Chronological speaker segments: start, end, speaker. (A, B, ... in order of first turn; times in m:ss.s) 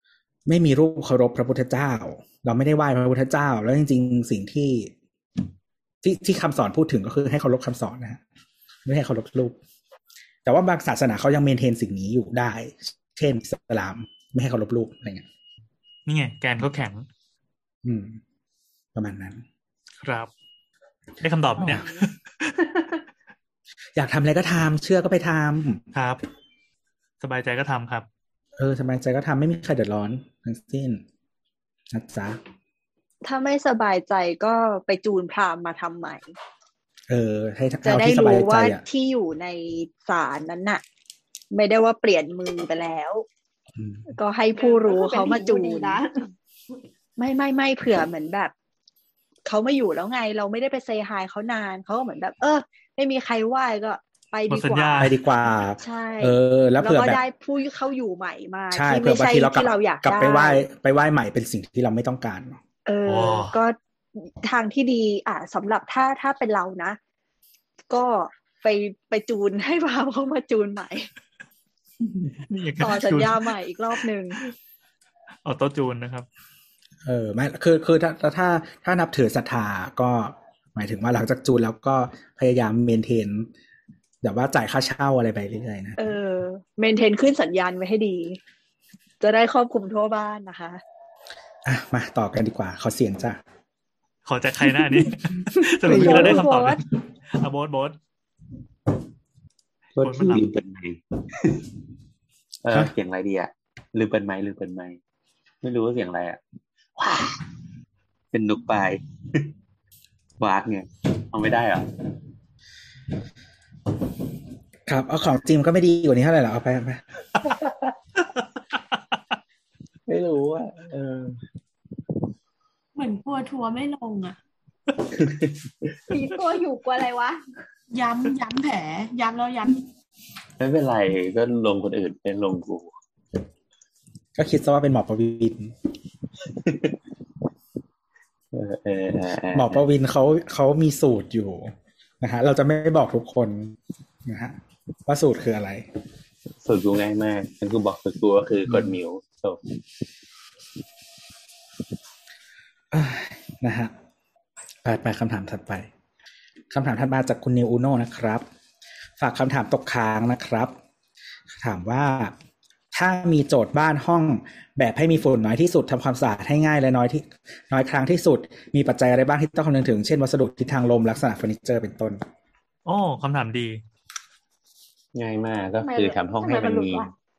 0:00.5-0:04.9 A
0:06.0-0:08.2 A
0:08.9-0:09.6 A
0:10.4-0:15.3 A
0:16.1-0:17.1 B
0:17.8-0:18.2 A
0:19.0-0:19.4 A
0:20.0-0:20.3 B
0:21.2-0:23.0 B
0:21.6-0:21.8 A
0:24.0-0:25.8 A
0:25.9-0:26.2 B
0:27.2-0:28.1 B
0:28.6-0:31.0 A
0:31.9-0:32.4 A
0:33.2-0:36.3 C
0:37.1-0:38.8 A
0:37.8-0:40.8 C
0:41.5-0:43.2 C
0:43.8-0:44.1 A
0:44.1-0:46.0 C
0:44.5-0:46.3 D
0:47.2-0:48.5 C
0:49.4-0:55.1 C
0:54.5-0:55.2 B
0:55.0-0:57.2 A
0:55.8-1:00.6 C
0:58.7-1:02.6 A
1:02.9-1:07.0 C
1:03.0-1:03.6 B
1:07.9-1:11.1 C
1:12.4-1:13.5 B
1:12.8-1:14.4 C
1:15.4-1:16.3 B
1:17.0-1:23.5 A
1:24.2-1:26.0 A
1:26.0-1:28.4 C
1:29.2-1:30.8 C
1:31.6-1:33.4 A
1:34.3-1:36.8 B
1:35.6-1:36.4 A
1:35.8-1:36.8 C
1:37.4-1:38.0 B
1:40.0-1:41.7 E
1:40.0-1:40.6 B
1:42.6-1:45.0 E
1:45.6-1:46.4 E
1:47.0-1:47.4 E
1:48.3-1:49.5 E
1:50.4-1:51.9 E
1:54.9-1:57.0 A
1:57.4-1:57.9 E
2:00.1-2:01.4 E
2:03.0-2:04.4 F
2:05.1-2:06.0 E
2:06.1-2:07.4 D
2:07.9-2:09.8 F
2:10.6-2:12.9 E
2:14.4-2:15.7 A
2:16.5-2:17.0 E
2:18.5-2:19.8 E
2:19.5-2:24.6 A
2:25.1-2:25.8 A
2:26.6-2:29.6 E
2:28.7-2:28.9 A
2:32.9-2:33.9 A
2:34.8-2:35.9 A
2:36.7-2:38.4 A
2:39.2-2:40.8 A
2:41.5-2:42.3 A
2:42.9-2:52.2 A
2:52.8-2:53.8 B
2:55.2-2:57.1 E
2:55.8-2:57.1 D